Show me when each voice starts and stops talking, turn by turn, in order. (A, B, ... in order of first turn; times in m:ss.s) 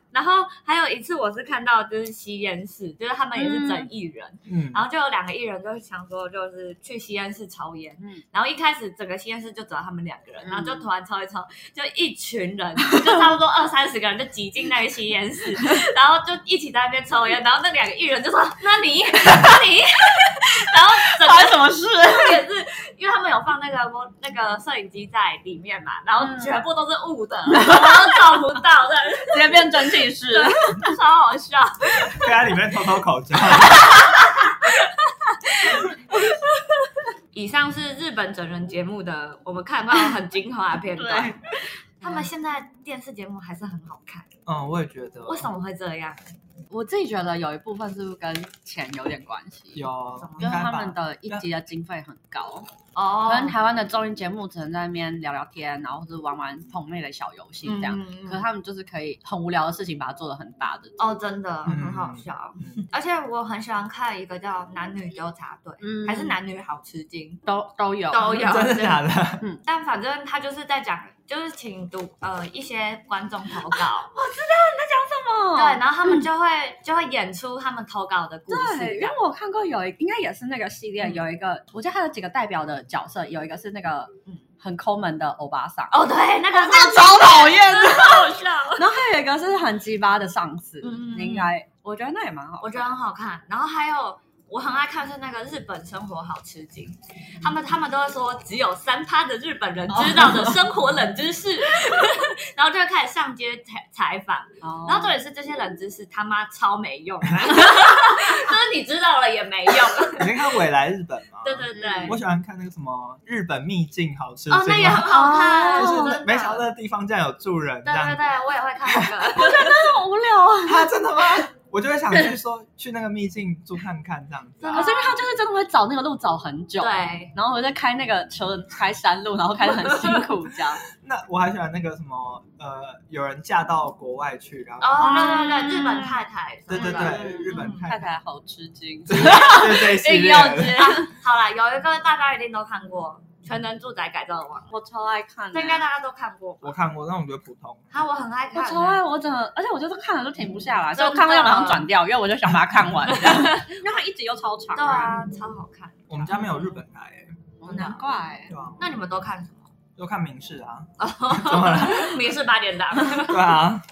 0:00.1-0:32.3 A
0:03.4-0:03.9 B
0:04.5-0:04.8 C
0:10.4-0:10.8 B
0:21.0-0:22.4 B
0:26.2-0:26.6 B
0:27.5-0:28.4 B
0:29.3-0:30.9 B
0:32.1-0:33.9 C
0:33.7-0:34.4 B
0:34.3-0:34.9 A
0:35.6-0:36.2 B
0:37.3-0:44.3 A
0:41.0-0:42.3 B
0:44.4-0:45.5 C
0:45.2-0:46.3 A
0:46.7-0:49.8 B
0:49.7-0:51.4 C
0:50.2-0:50.7 A
0:50.4-0:52.7 B
0:52.9-0:53.6 A
0:53.2-1:00.9 B
0:57.6-0:58.5 A
1:01.0-1:07.4 A
1:01.6-1:02.8 C
1:05.8-1:06.4 B
1:07.4-1:08.6 B
1:08.1-1:09.1 A
1:08.4-1:09.4 C
1:09.6-1:14.1 A
1:14.1-1:16.2 B
1:15.6-1:19.2 A
1:18.5-1:25.9 B
1:25.9-1:28.8 A
1:26.5-1:32.9 B
1:30.8-1:31.5 A
1:32.6-1:50.4 A
1:39.9-1:40.5 B
1:44.6-1:45.1 B
1:50.2-1:55.2 C
1:51.4-1:52.2 A
1:51.7-1:52.1 B
1:54.5-1:56.6 A
1:55.0-1:56.2 B
1:55.7-1:58.3 C
1:57.8-1:59.7 A
1:58.8-1:59.1 C
1:59.3-2:00.9 B
2:00.6-2:04.9 C
2:04.6-2:05.2 A
2:04.7-2:10.8 B
2:06.8-2:07.3 A
2:11.0-2:15.2 C
2:14.8-2:17.8 A
2:15.0-2:16.2 B
2:16.7-2:18.1 C
2:16.7-2:21.1 B
2:19.1-2:20.9 C
2:19.4-2:24.7 A
2:24.7-2:25.8 B
2:25.5-2:26.7 A
2:26.6-2:27.9 C
2:27.9-2:29.0 A
2:28.5-2:35.2 B
2:31.0-2:31.9 A
2:33.1-2:33.7 A
2:34.7-2:36.7 A
2:36.1-2:37.4 C
2:37.6-2:38.5 B
2:37.6-2:38.2 A
2:38.5-2:38.8 C
2:38.8-2:39.7 A
2:40.0-2:42.2 C
2:41.0-2:43.6 A
2:43.1-2:43.8 C